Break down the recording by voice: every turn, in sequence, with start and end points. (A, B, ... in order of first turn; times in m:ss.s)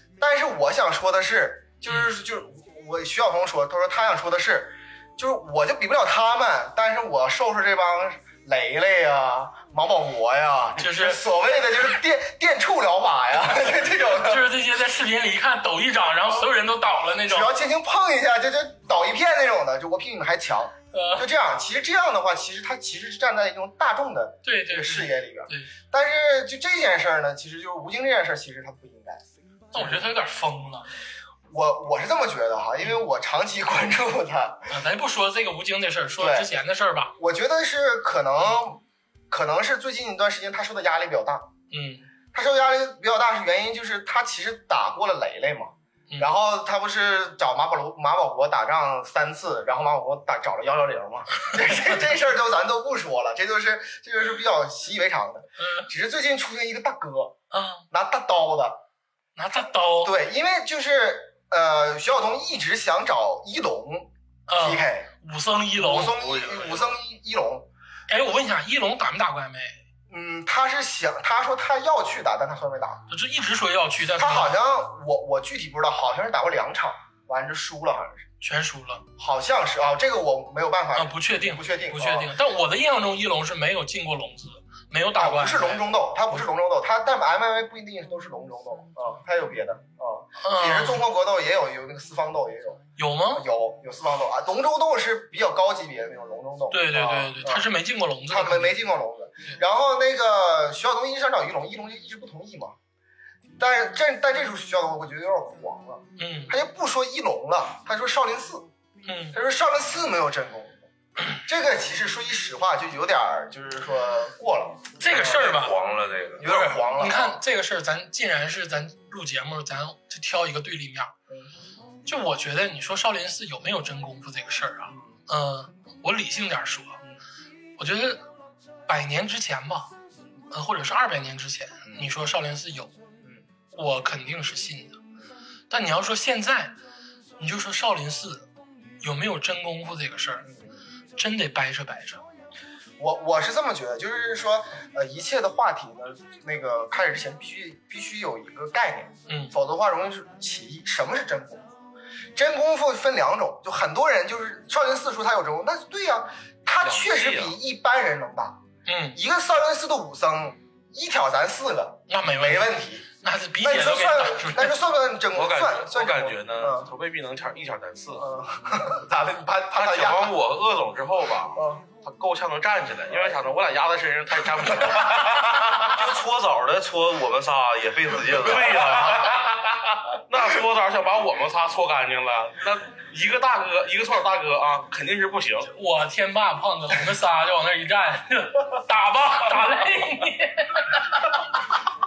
0:00.2-0:14.5 A
0:10.8-0:11.2 B
0:14.0-0:17.5 B
0:17.3-0:29.2 A
0:20.9-0:21.3 B
0:24.4-0:25.7 B
0:29.7-0:30.9 B
0:29.8-0:30.0 A
0:31.5-0:34.7 A
0:34.7-0:37.1 B
0:36.2-0:36.5 A
0:37.2-0:41.5 A
0:41.7-0:42.1 B
0:42.3-0:57.4 A
0:55.6-0:55.9 B
0:57.5-0:57.8 B
0:57.9-0:58.8 A
0:59.4-1:00.1 B
1:00.0-1:05.1 A
1:04.5-1:06.2 B
1:05.8-1:07.7 A
1:06.2-1:06.9 C
1:08.1-1:09.8 B
1:10.1-1:13.0 A
1:13.1-1:14.5 B
1:14.2-1:18.3 A
1:18.4-1:19.0 B
1:19.2-1:22.3 A
1:21.0-1:26.4 B
1:25.1-1:37.7 A
1:30.4-1:31.0 B
1:33.0-1:33.4 B
1:36.7-1:38.8 B
1:38.3-1:42.8 A
1:43.6-1:48.7 A
1:46.2-1:46.6 B
1:49.1-1:49.4 B
1:49.3-1:55.5 A
1:55.0-1:55.8 B
1:55.1-1:56.4 D
1:56.4-1:57.4 A
1:56.4-2:01.1 B
2:02.1-2:07.0 B
2:04.9-2:05.2 A
2:07.8-2:08.2 B
2:08.9-2:09.9 B
2:10.5-2:13.0 B
2:11.9-2:12.1 A
2:13.7-2:15.0 B
2:15.7-2:16.7 B
2:17.4-2:18.5 B
2:19.0-2:20.5 B
2:20.4-2:20.7 A
2:21.2-2:22.2 B
2:23.0-2:31.7 A
2:32.4-2:38.6 A
2:36.8-2:37.6 C
2:38.9-2:39.2 B
2:39.1-2:43.1 A
2:42.1-2:44.8 B
2:43.6-2:46.9 A
2:45.3-2:48.3 C
2:48.2-2:50.4 A
2:49.7-2:55.9 C
2:51.6-2:51.8 A
2:55.9-2:59.0 D
2:58.3-3:05.7 C
3:05.7-3:11.4 B